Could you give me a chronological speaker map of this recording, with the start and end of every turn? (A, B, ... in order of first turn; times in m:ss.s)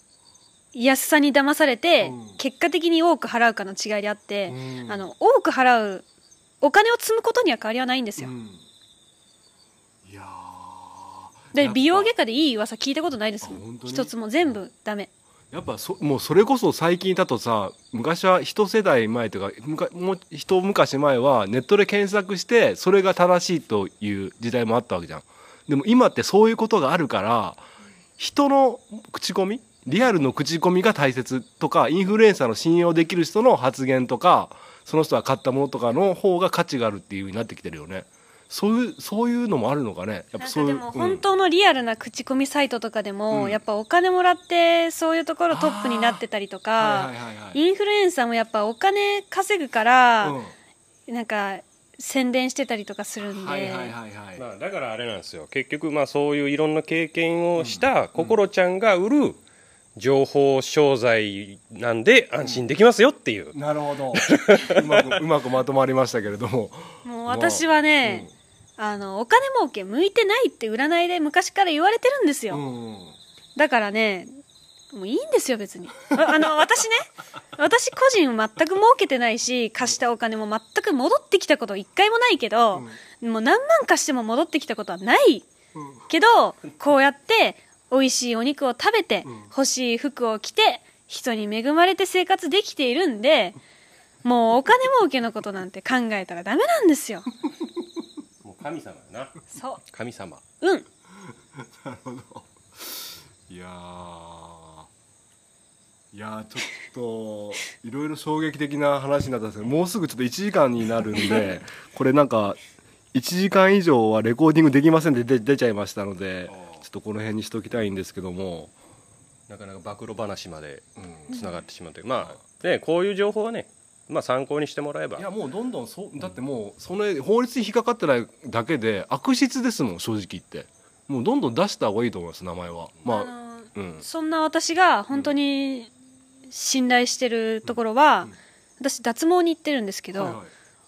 0:00.7-0:06.0 A
0:02.0-0:02.4 B
0:04.5-0:05.0 B
0:06.6-0:08.3 A
0:08.2-0:08.6 B
0:10.0-0:12.1 B
0:11.5-0:15.1 A
0:13.4-0:14.1 B
0:15.5-0:27.6 B
0:28.2-0:41.2 B
0:40.4-0:50.4 A
0:43.3-0:43.6 B
0:45.5-0:46.2 B
0:46.8-0:47.6 B
0:50.2-0:50.5 B
0:51.1-0:53.9 A
0:53.2-0:54.4 B
0:54.4-0:59.4 C
0:57.6-0:58.4 B
1:00.0-1:03.6 C
1:03.5-1:08.3 B
1:04.1-1:05.2 C
1:07.0-1:12.6 A
1:12.5-1:13.2 B
1:13.6-1:14.3 A
1:14.9-1:25.5 A
1:25.7-1:26.0 B
1:26.1-1:33.6 A
1:29.2-1:29.5 B
1:34.2-1:37.3 A
1:38.4-1:39.4 C
1:39.5-1:39.8 A
1:39.9-1:40.4 C
1:40.6-1:40.8 A
1:41.2-1:44.9 B
1:46.1-1:52.6 B
1:53.1-1:58.7 B
1:59.5-2:05.3 C
2:01.0-2:01.5 B
2:05.2-2:14.0 B
2:13.0-2:15.9 A
2:16.5-2:20.4 A
2:17.6-2:18.3 B
2:20.1-2:20.5 B